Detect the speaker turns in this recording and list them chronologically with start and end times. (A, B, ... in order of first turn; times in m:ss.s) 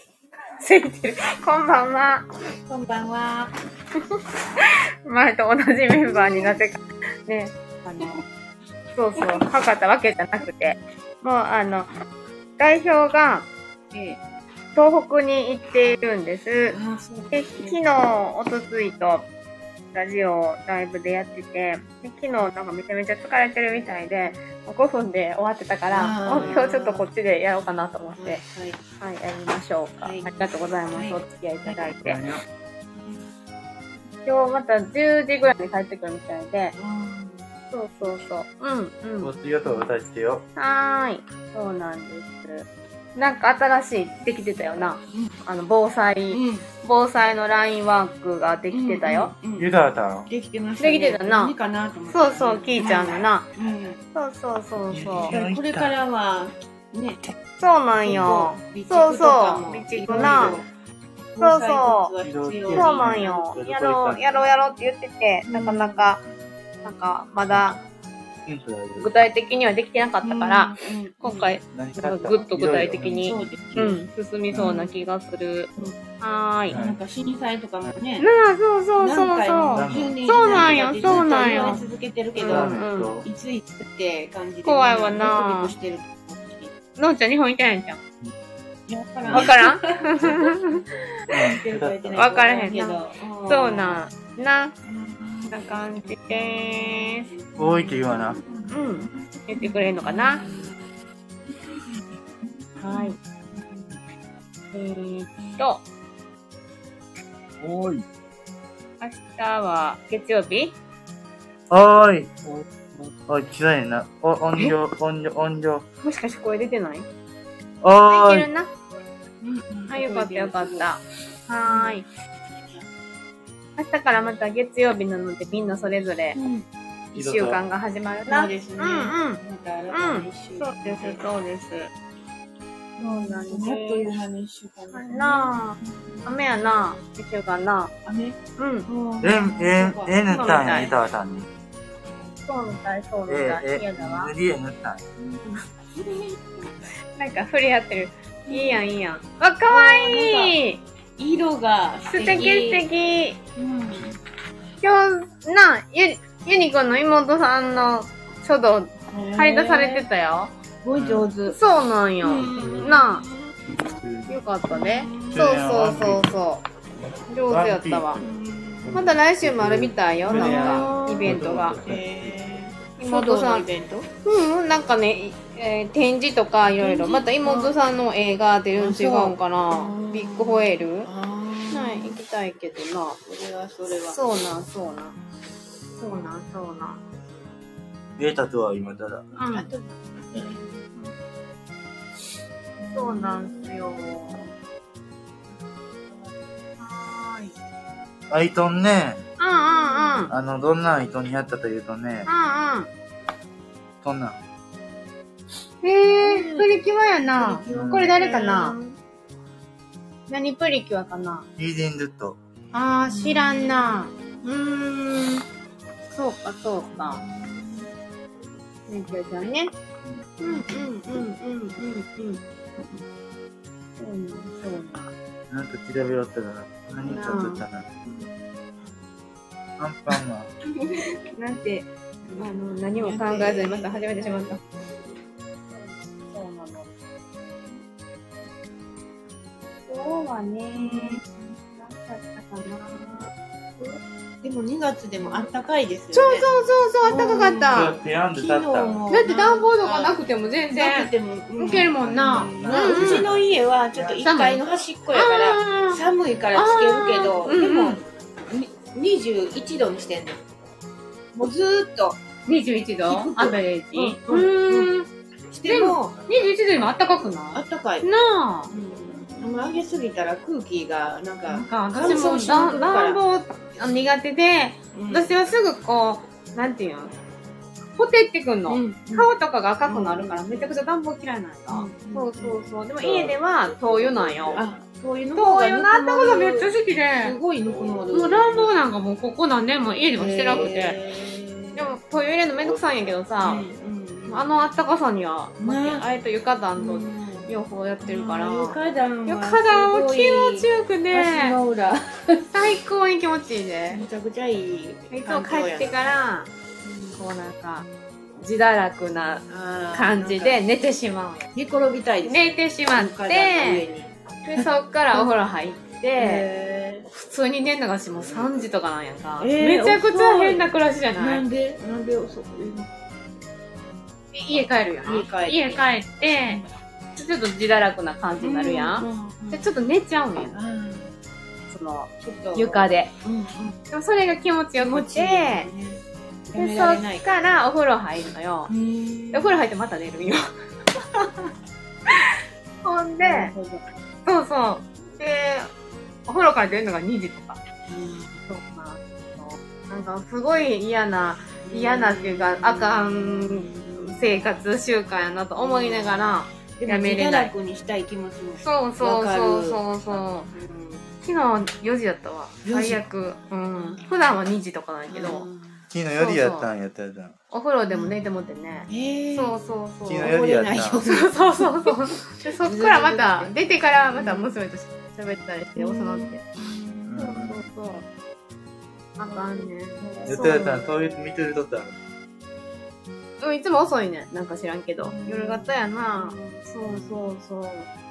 0:00.6-0:02.2 A
0:02.7-0:03.5 B
0:04.6-0:08.2 A
0:06.0-0:06.6 B
0:08.9-0:11.9 A
0:12.6-0:14.2 A
0:14.7-0:16.8 A
0:16.7-0:17.8 B
0:17.3-0:19.3 A
0:19.9-0:28.4 A
0:25.9-0:27.1 B
0:26.3-0:26.6 C
0:28.2-0:28.8 B
0:29.0-0:32.2 A
0:30.0-0:30.3 B
0:30.9-0:31.9 B
0:31.8-0:32.4 C
0:32.9-0:33.2 B
0:34.2-0:36.7 A
0:36.8-0:37.4 B
0:37.7-0:39.3 A
0:39.2-0:40.4 C
0:40.6-0:49.4 A
0:45.1-0:45.4 B
0:46.3-0:46.6 B
0:48.7-0:49.7 B
0:49.6-0:50.3 C
0:50.2-0:54.0 B
0:50.8-0:51.5 A
0:52.1-0:53.5 A
0:54.1-0:55.4 A
0:54.9-0:56.0 C
0:55.3-0:57.3 B
0:57.6-1:00.6 A
0:58.0-1:00.7 B
1:00.1-1:00.6 C
1:01.3-1:03.5 B
1:01.4-1:02.1 A
1:02.2-1:04.5 C
1:02.7-1:06.2 A
1:05.4-1:06.1 B
1:06.8-1:07.8 A
1:07.5-1:07.8 C
1:08.4-1:09.2 C
1:09.0-1:16.8 A
1:10.2-1:11.5 B
1:11.7-1:14.8 C
1:13.2-1:13.9 B
1:14.6-1:14.9 B
1:16.7-1:17.0 C
1:16.7-1:18.3 B
1:18.2-1:23.2 A
1:19.0-1:26.7 B
1:19.7-1:21.8 C
1:22.4-1:23.3 C
1:24.6-1:25.7 A
1:27.0-1:28.0 A
1:28.9-1:34.0 B
1:29.2-1:29.6 C
1:29.3-1:30.8 A
1:31.3-1:32.2 C
1:32.2-1:34.7 A
1:34.8-1:40.7 B
1:35.5-1:37.3 A
1:37.6-1:38.4 C
1:38.7-1:40.4 A
1:42.8-1:43.9 B
1:42.8-1:43.2 A
1:44.7-1:45.8 A
1:45.4-1:45.6 B
1:47.6-1:48.0 C
1:49.0-1:50.8 A
1:51.7-1:52.5 C
1:53.2-1:55.8 C
1:56.0-1:57.0 A
1:57.8-1:58.5 C
1:58.0-1:58.7 A
1:59.4-2:00.9 B
1:59.9-2:02.0 A
2:01.6-2:02.0 B
2:02.6-2:02.8 B
2:03.8-2:06.4 A
2:06.3-2:06.6 B
2:07.1-2:11.9 A
2:07.1-2:07.6 C
2:08.3-2:11.3 B
2:13.0-2:17.0 B
2:13.0-2:14.1 A
2:14.9-2:17.9 A
2:18.0-2:20.9 B
2:18.6-2:18.9 A
2:19.2-2:21.5 C
2:20.3-2:21.0 A
2:22.4-2:24.3 A
2:23.3-2:25.4 C
2:25.4-2:26.4 B
2:27.2-2:30.8 A
2:28.5-2:28.8 B
2:29.7-2:30.6 B
2:31.2-2:32.9 B
2:32.1-2:33.4 A
2:33.6-2:34.1 B
2:34.8-2:40.5 A
2:39.1-2:40.1 B
2:40.8-2:41.6 B
2:40.9-2:41.2 C
2:41.5-2:43.2 A
2:42.2-2:43.5 B
2:42.4-2:43.0 C
2:43.8-2:44.4 C
2:44.3-2:46.6 A
2:44.7-2:45.5 B
2:45.3-2:46.3 C
2:47.0-2:48.3 C
2:47.3-2:48.2 A
2:48.2-2:49.0 B
2:48.8-2:52.4 C
2:48.9-2:51.8 A
2:50.2-2:54.1 B
2:53.0-2:53.7 A
2:54.2-3:01.1 A
2:56.8-2:57.8 B
2:58.7-3:02.2 B
3:01.7-3:03.2 A
3:03.2-3:04.2 B
3:03.9-3:05.2 A
3:05.9-3:07.0 A
3:08.2-3:09.3 C
3:09.3-3:09.7 A
3:09.5-3:10.9 B
3:12.8-3:14.3 B
3:12.9-3:14.5 A
3:16.8-3:17.5 A
3:18.3-3:19.2 C
3:19.4-3:20.3 A
3:19.7-3:20.3 B
3:20.3-3:22.3 C
3:22.3-3:22.9 A
3:24.0-3:24.4 C
3:25.8-3:28.8 A
3:26.2-3:26.7 B
3:27.3-3:29.0 B
3:27.7-3:28.1 C
3:30.3-3:31.5 A
3:31.6-3:32.4 C
3:32.7-3:35.4 A
3:33.1-3:34.1 B
3:36.1-3:37.2 A
3:36.9-3:37.9 B
3:38.9-3:39.7 A
3:40.4-3:43.0 A
3:40.4-3:42.0 B
3:44.0-3:45.1 A
3:45.5-3:47.9 C
3:47.0-3:47.6 A
3:49.8-3:50.5 C
3:51.0-3:54.6 A
3:52.9-3:54.6 B
3:55.7-3:56.9 A
3:59.8-4:04.0 A
4:00.7-4:01.3 B
4:04.4-4:06.5 B
4:05.2-4:05.5 A
4:06.1-4:08.0 A
4:07.0-4:10.2 B
4:07.7-4:09.0 C
4:09.1-4:13.3 A
4:10.7-4:20.4 B
4:12.0-4:14.3 C
4:14.2-4:18.0 A
4:21.3-4:22.2 B
4:22.4-4:25.1 A
4:23.0-4:24.9 B
4:25.5-4:26.1 B
4:25.6-4:28.7 A
4:26.8-4:28.1 B
4:28.7-4:33.2 B
4:31.5-4:37.2 A
4:34.9-4:35.4 B
4:37.9-4:44.6 A
4:38.7-4:39.3 B
4:39.8-4:40.8 B
4:41.7-4:43.3 B
4:44.5-4:48.8 B
4:45.4-4:47.4 A
4:48.1-4:51.0 A
4:50.1-4:51.9 B
4:51.7-4:53.6 A
4:52.6-4:53.0 C
4:53.4-4:54.5 B
4:54.3-5:01.6 A
4:55.6-4:56.0 B
4:56.8-4:57.5 B
4:58.0-5:02.5 B
5:02.5-5:04.0 A
5:03.9-5:06.1 B
5:05.1-5:06.5 A
5:06.8-5:07.2 B
5:07.2-5:07.8 A
5:08.4-5:11.5 A
5:09.5-5:10.6 B
5:11.5-5:15.3 B
5:12.2-5:13.9 A
5:14.4-5:16.5 A
5:16.2-5:17.1 B
5:17.1-5:21.4 A
5:19.4-5:22.9 B
5:24.3-5:30.6 A
5:25.0-5:26.6 B
5:28.4-5:29.7 B
5:30.5-5:31.1 B
5:31.7-5:33.1 A
5:32.2-5:33.8 B
5:33.9-5:35.7 A
5:34.8-5:37.2 B
5:36.5-5:38.7 A
5:38.7-5:39.7 B
5:39.3-5:40.4 A
5:41.0-5:41.5 A
5:42.1-5:43.5 A
5:43.2-5:43.9 B
5:44.2-5:45.7 A
5:46.2-5:47.6 A
5:47.9-5:48.3 B
5:48.5-5:57.5 A
5:51.6-5:54.6 B
5:55.6-6:01.0 B
5:58.6-6:00.5 A
6:01.2-6:05.5 A
6:02.6-6:03.0 B
6:03.7-6:04.0 B
6:05.1-6:05.8 B
6:05.9-6:07.3 C
6:06.1-6:06.7 A
6:07.5-6:10.4 A
6:07.9-6:08.2 B
6:08.9-6:09.6 B
6:10.0-6:11.0 C
6:10.2-6:13.5 B
6:11.0-6:16.4 A
6:14.1-6:14.6 B
6:15.8-6:17.6 B
6:17.1-6:17.6 C
6:17.2-6:18.0 A
6:19.2-6:20.7 A
6:19.3-6:20.9 B
6:20.2-6:22.0 C
6:23.4-6:27.9 A
6:25.0-6:27.2 B